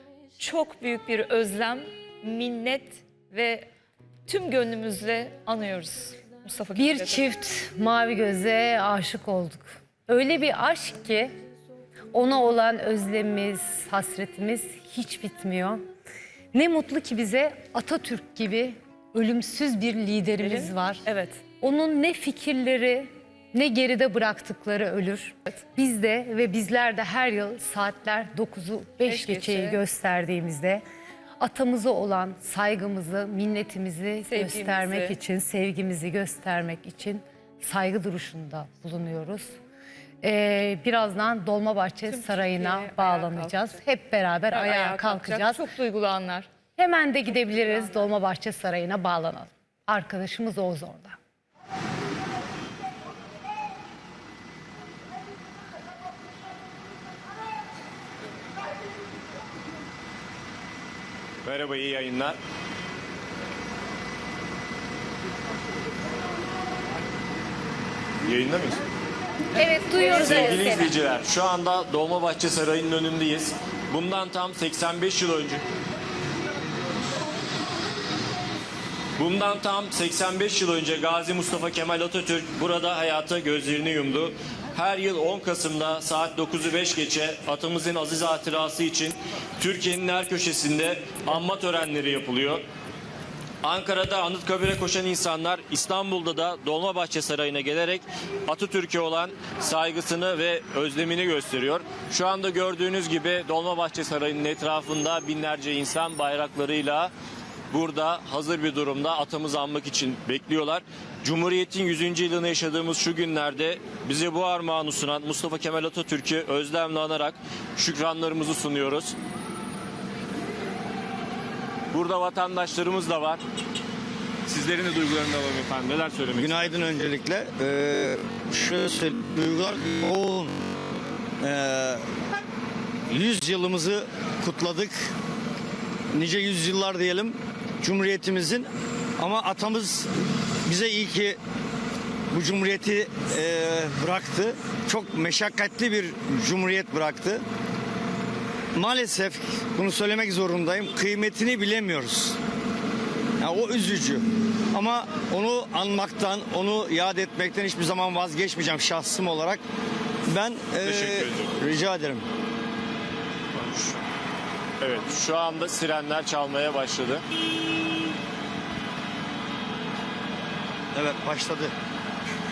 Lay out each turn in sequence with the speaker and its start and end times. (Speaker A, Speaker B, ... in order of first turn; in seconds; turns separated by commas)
Speaker A: 0.4-3.7, Speaker A: 4.3-7.3, Speaker B: 6.7-11.3, Speaker B: 12.1-15.8, Speaker B: 16.5-21.1, Speaker A: 20.4-21.4, Speaker B: 21.6-30.8, Speaker A: 29.0-29.8, Speaker B: 31.4-39.6, Speaker A: 34.2-35.2, Speaker B: 40.2-45.7, Speaker A: 42.1-43.8, Speaker A: 44.5-46.5, Speaker B: 46.8-51.2, Speaker C: 61.4-62.4, Speaker C: 68.2-68.8, Speaker B: 69.5-70.9, Speaker C: 70.0-75.6, Speaker C: 79.2-92.6, Speaker C: 93.6-107.1, Speaker C: 107.7-119.2, Speaker C: 121.9-123.4, Speaker C: 124.5-126.8, Speaker D: 126.3-130.6, Speaker D: 131.4-132.0, Speaker D: 133.1-135.1, Speaker D: 136.1-138.7, Speaker D: 139.2-140.1, Speaker D: 140.7-141.4, Speaker D: 142.3-147.4, Speaker D: 148.8-152.4, Speaker D: 153.4-159.6, Speaker D: 160.3-162.2, Speaker C: 160.8-161.5, Speaker C: 163.5-164.0, Speaker C: 164.8-167.2, Speaker D: 170.9-171.7